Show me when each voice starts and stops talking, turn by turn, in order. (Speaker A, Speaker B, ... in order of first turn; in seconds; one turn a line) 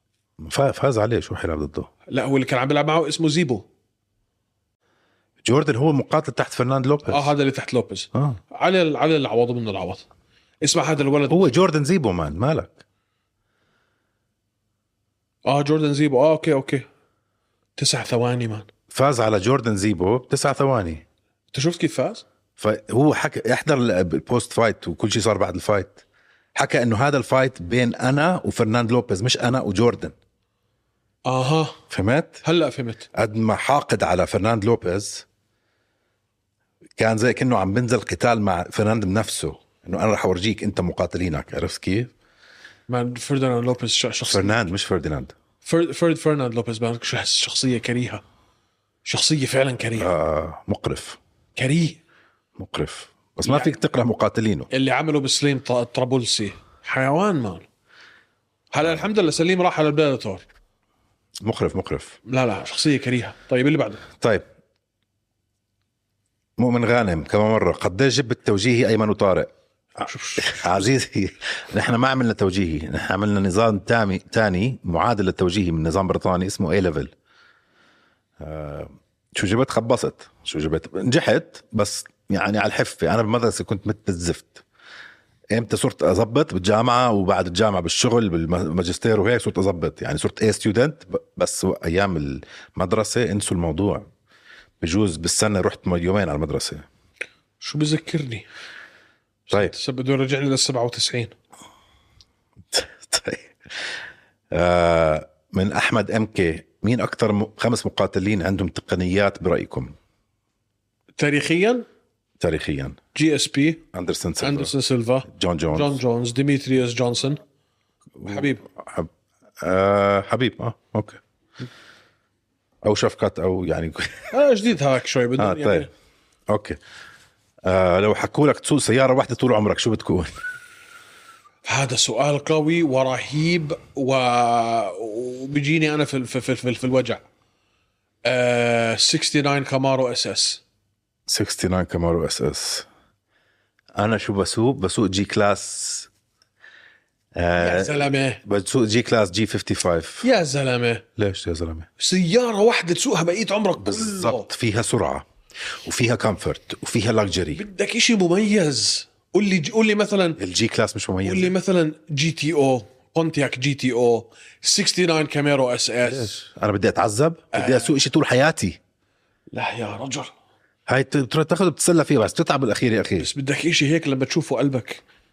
Speaker A: 0.4-1.9
Speaker B: 2.1-3.6
Speaker A: 5.4-7.3
Speaker B: 7.1-10.1
Speaker A: 8.1-8.4
Speaker B: 10.6-11.5
Speaker A: 11.3-12.8
Speaker B: 15.5-16.9
Speaker B: 17.8-18.7
Speaker A: 18.9-21.1
Speaker B: 21.5-22.2
Speaker A: 22.6-26.0
Speaker A: 26.6-30.1
Speaker B: 31.3-31.8
Speaker A: 31.9-32.4
Speaker B: 32.4-33.0
Speaker A: 33.1-35.2
Speaker A: 37.0-42.1
Speaker B: 42.9-44.7
Speaker A: 44.2-45.3
Speaker B: 45.6-48.2
Speaker B: 49.0-50.1
Speaker A: 50.0-51.2
Speaker B: 51.5-52.0
Speaker A: 52.6-54.7
Speaker B: 53.5-53.7
Speaker B: 54.7-57.7
Speaker B: 58.7-60.4
Speaker A: 61.4-62.2
Speaker B: 62.3-64.0
Speaker A: 66.6-69.5
Speaker B: 70.0-70.5
Speaker A: 70.0-77.1
Speaker A: 78.4-84.6
Speaker A: 85.5-94.1
Speaker A: 94.8-96.9
Speaker B: 97.6-98.5
Speaker B: 99.5-101.3
Speaker A: 102.7-103.5
Speaker A: 104.5-109.9
Speaker B: 111.2-111.9
Speaker A: 112.4-113.0
Speaker B: 113.1-113.8
Speaker A: 113.9-114.7
Speaker B: 114.4-117.4
Speaker A: 115.3-116.0
Speaker A: 118.2-119.1
Speaker B: 118.3-118.6
Speaker A: 119.6-121.2
Speaker A: 122.8-124.3
Speaker B: 124.3-125.9
Speaker A: 125.4-125.9
Speaker A: 126.5-126.8
Speaker A: 127.6-130.3
Speaker B: 131.6-137.2
Speaker B: 138.2-140.6
Speaker A: 141.3-142.9
Speaker A: 143.9-146.1
Speaker A: 147.3-150.3
Speaker B: 147.6-148.4
Speaker B: 150.2-151.0
Speaker A: 151.2-151.9
Speaker B: 152.0-154.5
Speaker A: 153.8-155.2
Speaker A: 155.8-157.6
Speaker B: 157.6-160.4
Speaker A: 160.4-161.5
Speaker B: 161.2-166.3
Speaker A: 166.1-168.8
Speaker B: 167.5-167.9
Speaker B: 169.5-170.3
Speaker A: 170.9-173.3
Speaker B: 173.2-175.0